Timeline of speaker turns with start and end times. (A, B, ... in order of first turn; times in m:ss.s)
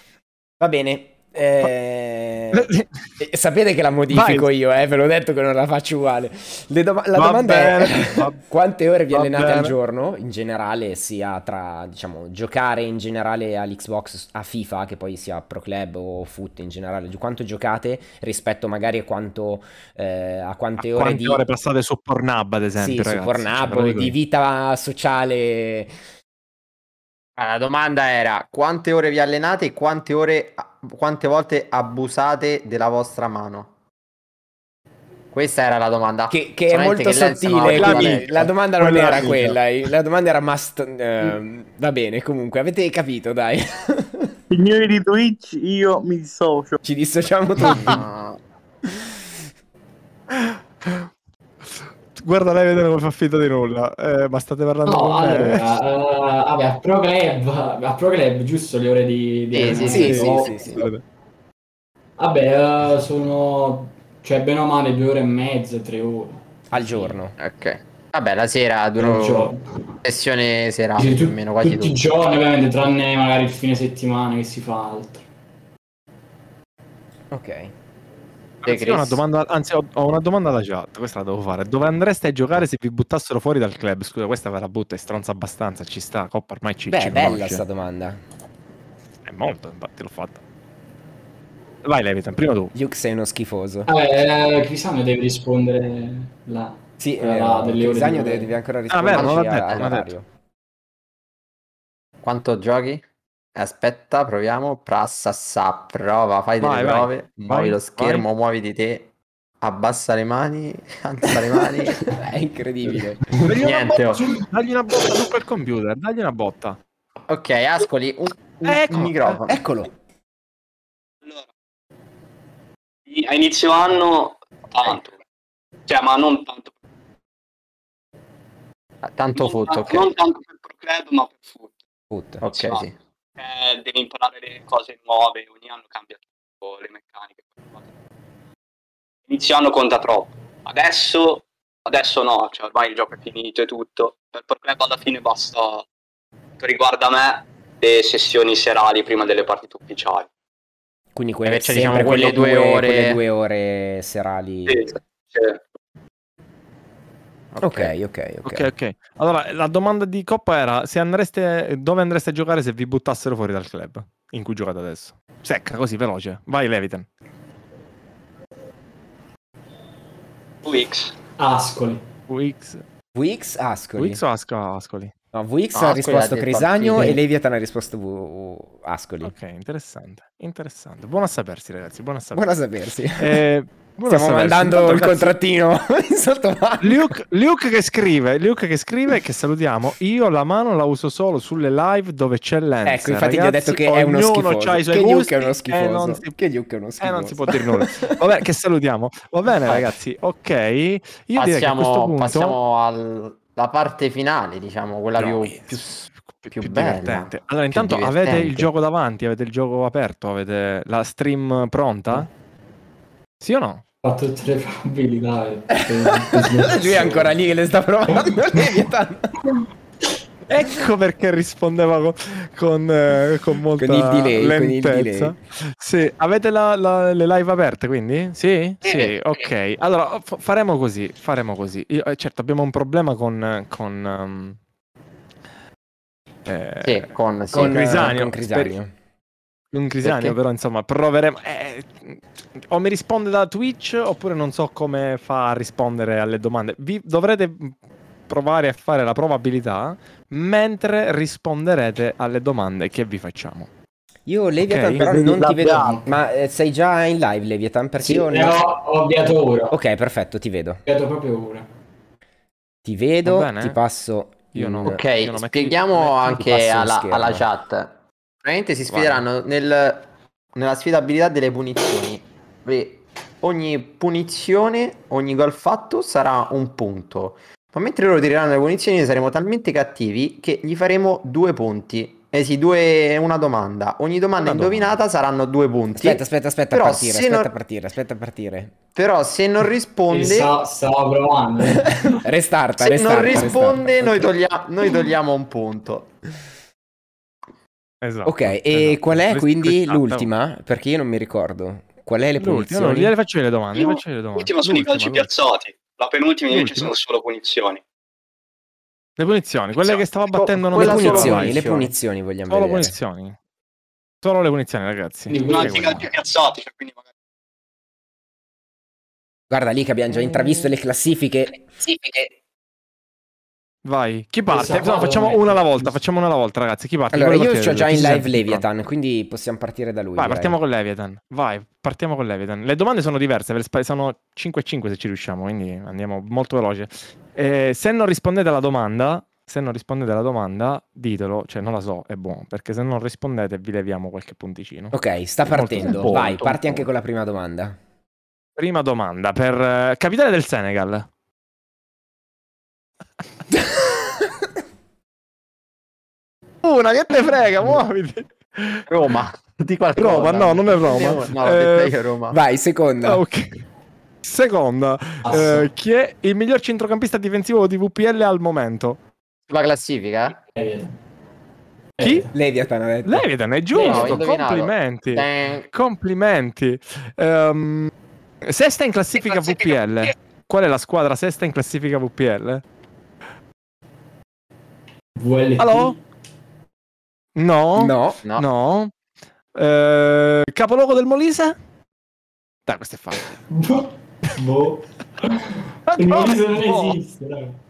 0:00.6-0:21.4 A
0:02.5-0:02.9 B
0:04.1-0:04.5 B
0:07.1-0:08.4 B
0:09.1-0:09.7 B
0:20.8-0:24.1 B
0:22.8-0:25.9 A
0:27.4-0:33.7 C
0:35.3-0:38.5 C
0:36.3-0:44.3 A
0:37.6-0:39.6 B
0:44.5-0:46.8 D
0:46.8-0:48.0 A
0:47.6-0:48.4 C
0:48.9-0:49.2 A
0:50.3-0:51.1 B
0:52.1-0:55.7 B
0:54.8-1:00.5 E
0:59.5-1:00.7 C
0:59.7-1:00.9 A
0:59.8-1:01.0 B
1:02.2-1:06.4 E
1:06.7-1:07.3 A
1:07.4-1:09.5 C
1:09.0-1:09.6 E
1:10.0-1:12.0 C
1:11.0-1:15.2 E
1:17.3-1:17.7 A
1:18.6-1:27.6 B
1:18.6-1:19.2 C
1:26.9-1:28.2 A
1:29.2-1:30.4 B
1:31.8-1:32.7 B
1:32.7-1:33.9 A
1:33.9-1:38.5 E
1:37.0-1:40.2 A
1:38.9-1:40.1 B
1:39.1-1:39.8 C
1:42.2-1:43.0 C
1:43.5-1:49.1 C
1:46.6-1:48.2 B
1:49.6-1:52.2 C
1:51.4-1:53.3 A
1:53.3-1:56.8 B
1:53.5-1:54.4 C
1:57.3-1:59.6 C
1:58.6-1:59.4 B
1:59.4-1:59.9 A
2:03.1-2:05.2 F
2:05.9-2:06.7 F
2:09.0-2:10.1 C
2:09.4-2:11.8 F
2:12.1-2:12.4 A
2:12.4-2:12.9 C
2:12.5-2:12.8 F
2:13.4-2:17.8 F
2:19.3-2:25.8 F
2:26.6-2:30.3 F
2:31.1-2:34.9 A
2:31.4-2:33.2 C
2:34.7-2:35.6 F
2:37.5-2:37.9 C
2:37.6-2:38.7 A
2:38.4-2:47.1 B
2:50.6-2:51.1 F
2:51.4-2:52.0 E
2:52.3-2:52.8 B
2:53.1-2:54.2 A
2:54.0-2:55.1 B
2:55.3-2:59.3 A
2:55.7-2:57.2 C
2:59.2-3:02.5 B
3:02.3-3:03.4 A
3:03.2-3:05.3 B
3:04.0-3:07.1 A
3:06.8-3:16.4 B
3:12.8-3:18.3 A
3:17.0-3:22.6 B
3:19.6-3:19.9 C
3:21.4-3:28.7 C
3:25.2-3:32.3 B
3:33.4-3:33.8 B
3:34.0-3:37.3 E
3:35.8-3:39.3 A
3:40.5-3:54.6 B
3:43.8-3:45.4 A
3:56.4-3:58.7 B
3:56.8-3:58.1 C
3:57.5-3:58.9 A
3:59.7-4:07.8 B
4:08.3-4:13.7 B
4:14.2-4:18.6 A
4:14.6-4:15.1 B
4:15.0-4:16.0 D
4:18.0-4:19.8 E
4:19.7-4:20.8 A
4:20.8-4:21.7 E
4:22.8-4:25.0 A
4:23.2-4:23.8 B
4:24.5-4:26.3 B
4:24.8-4:47.5 C
4:26.3-4:27.4 A
4:28.9-4:29.2 B
4:44.4-4:45.0 B
4:46.0-4:48.8 A
4:48.9-4:50.5 C
4:50.1-4:52.2 E
4:51.9-4:54.3 A
4:52.8-4:56.1 C
4:58.0-5:00.3 B
4:58.2-5:03.1 A
5:02.4-5:05.3 B
5:03.7-5:07.8 F
5:06.5-5:06.9 B
5:09.2-5:11.7 B
5:10.3-5:11.9 C
5:10.8-5:12.9 A
5:12.5-5:13.4 B
5:14.2-5:16.1 B
5:15.3-5:15.9 E
5:15.4-5:17.0 F
5:19.5-5:21.7 A
5:21.9-5:22.3 F
5:23.8-5:28.6 B
5:24.5-5:26.0 E
5:27.1-5:30.6 A
5:30.2-5:44.9 B
5:44.9-5:47.8 A
5:45.5-5:46.8 B
5:45.8-5:46.1 C
5:48.6-5:51.1 B
5:56.6-5:58.9 B
5:58.9-6:02.4 C
6:00.0-6:02.0 B
6:02.3-6:03.2 A
6:03.0-6:03.6 B
6:04.2-6:09.0 B
6:05.2-6:05.7 E
6:09.5-6:10.4 C
6:10.5-6:10.9 E
6:12.0-6:12.3 E
6:12.0-6:12.3 B
6:12.3-6:13.2 A
6:13.0-6:22.6 B
6:13.7-6:15.7 C
6:13.7-6:14.1 E
6:25.2-6:26.0 E
6:25.6-6:26.0 B
6:27.3-6:28.9 B
6:27.8-6:28.2 A
6:29.5-6:31.6 B
6:32.6-6:33.4 B
6:33.5-6:37.6 E
6:35.9-6:37.0 B